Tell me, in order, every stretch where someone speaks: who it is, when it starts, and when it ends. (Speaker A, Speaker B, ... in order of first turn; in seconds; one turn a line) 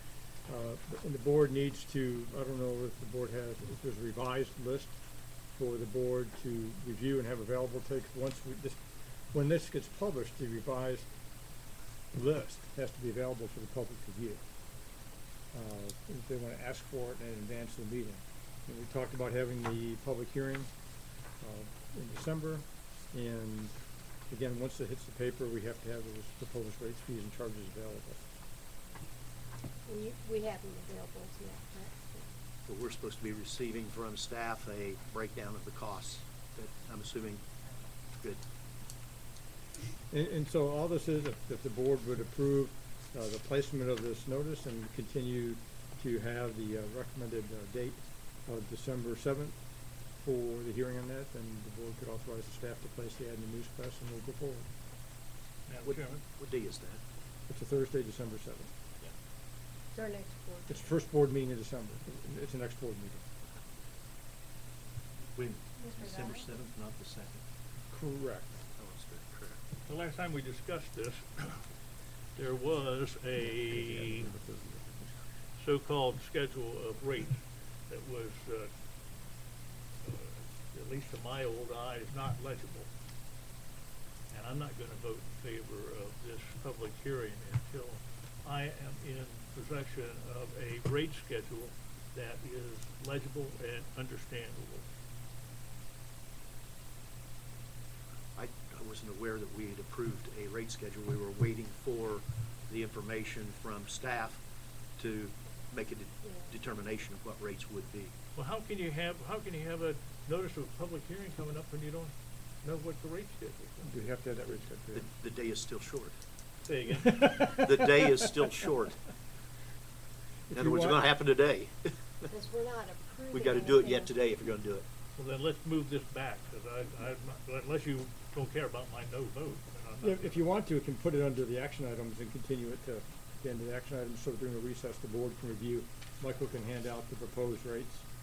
Speaker A: 0.5-5.0
Speaker A: 5.5-11.1
Speaker A: 12.1-14.4
Speaker A: 15.5-20.7
Speaker A: 21.4-23.8
Speaker A: 24.3-28.2
Speaker B: 29.9-32.3
Speaker C: 32.7-37.4
Speaker A: 40.1-49.6
Speaker A: 50.2-54.7
Speaker D: 55.7-56.2
Speaker C: 55.9-57.0
Speaker A: 57.5-58.7
Speaker B: 59.9-60.9
Speaker A: 60.7-63.3
Speaker C: 65.4-67.4
Speaker B: 65.8-66.5
Speaker A: 67.9-68.6
Speaker C: 68.8-69.6
Speaker D: 69.9-71.6
Speaker D: 72.4-74.3
Speaker A: 73.4-75.1
Speaker D: 75.6-78.7
Speaker D: 80.0-82.9
Speaker D: 84.3-94.9
Speaker C: 98.3-104.4
Speaker C: 105.0-108.1
Speaker D: 108.3-113.9
Speaker A: 113.8-115.1
Speaker C: 114.9-116.2
Speaker D: 116.7-117.6
Speaker A: 117.1-118.1
Speaker C: 117.5-119.0
Speaker A: 120.5-121.0
Speaker C: 120.5-122.3
Speaker B: 122.3-124.2
Speaker C: 123.3-124.9
Speaker D: 125.2-130.4
Speaker A: 130.0-138.1